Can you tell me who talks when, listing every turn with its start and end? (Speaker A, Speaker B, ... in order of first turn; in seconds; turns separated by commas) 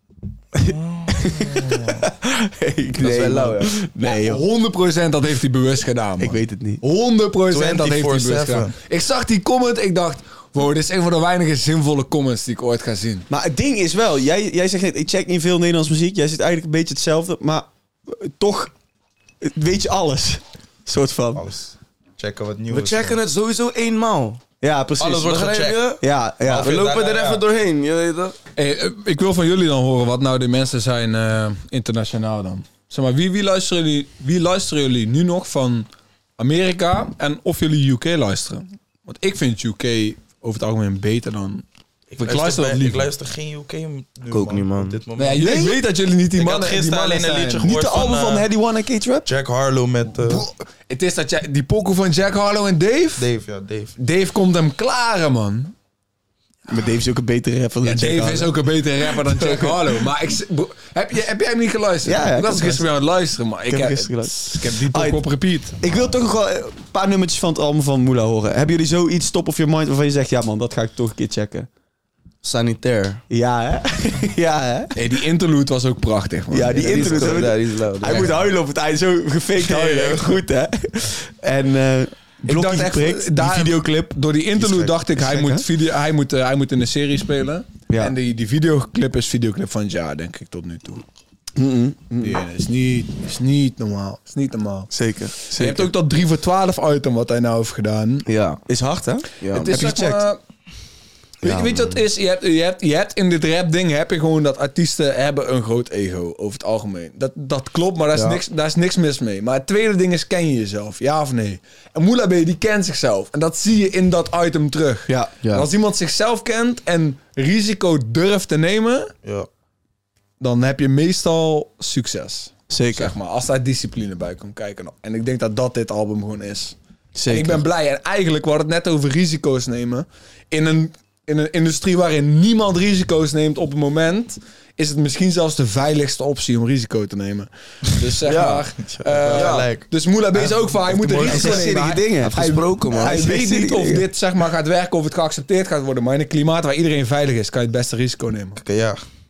Speaker A: 0.6-2.0, Speaker B: 0.6-4.4, Speaker C: 3.0-3.8, Speaker D: 4.1-13.2, Speaker B: 6.2-6.8, Speaker A: 7.5-8.7, Speaker B: 13.3-18.7, Speaker B: 19.4-21.4, Speaker A: 21.3-23.2, Speaker C: 22.7-24.4, Speaker B: 24.6-25.3, Speaker A: 25.0-25.9, Speaker C: 25.2-26.0, Speaker B: 26.0-26.7, Speaker A: 26.4-27.4, Speaker C: 26.5-28.4, Speaker D: 28.6-35.9, Speaker D: 36.4-41.6, Speaker D: 42.1-43.1, Speaker A: 42.1-45.5, Speaker C: 44.3-45.0, Speaker D: 45.2-47.7, Speaker B: 45.4-45.8, Speaker A: 46.4-48.5, Speaker B: 47.6-49.3, Speaker A: 49.2-50.5, Speaker D: 50.1-53.3, Speaker A: 53.2-53.9, Speaker D: 54.0-55.7, Speaker B: 56.7-58.5, Speaker D: 57.8-65.8, Speaker B: 59.0-60.0, Speaker B: 62.0-62.9, Speaker B: 63.7-65.2, Speaker B: 65.8-71.7, Speaker C: 72.4-73.2, Speaker B: 73.3-75.0, Speaker D: 75.0-77.5, Speaker B: 76.5-85.6, Speaker C: 76.7-78.3, Speaker D: 82.5-91.0, Speaker B: 87.9-88.1, Speaker B: 91.5-92.4, Speaker D: 92.2-94.9, Speaker B: 94.9-95.9, Speaker D: 95.5-98.3, Speaker C: 98.2-98.6, Speaker B: 98.7-100.2, Speaker C: 99.4-99.8, Speaker D: 99.5-100.4, Speaker D: 101.4-119.1, Speaker C: 101.4-102.0, Speaker C: 108.1-108.4, Speaker D: 120.4-126.8, Speaker B: 122.7-123.1, Speaker B: 127.2-127.6, Speaker D: 127.3-148.6, Speaker C: 138.2-138.6, Speaker A: 138.8-141.8, Speaker C: 139.3-139.7, Speaker B: 141.2-142.4, Speaker C: 142.2-143.2, Speaker B: 143.0-144.0, Speaker A: 148.6-149.0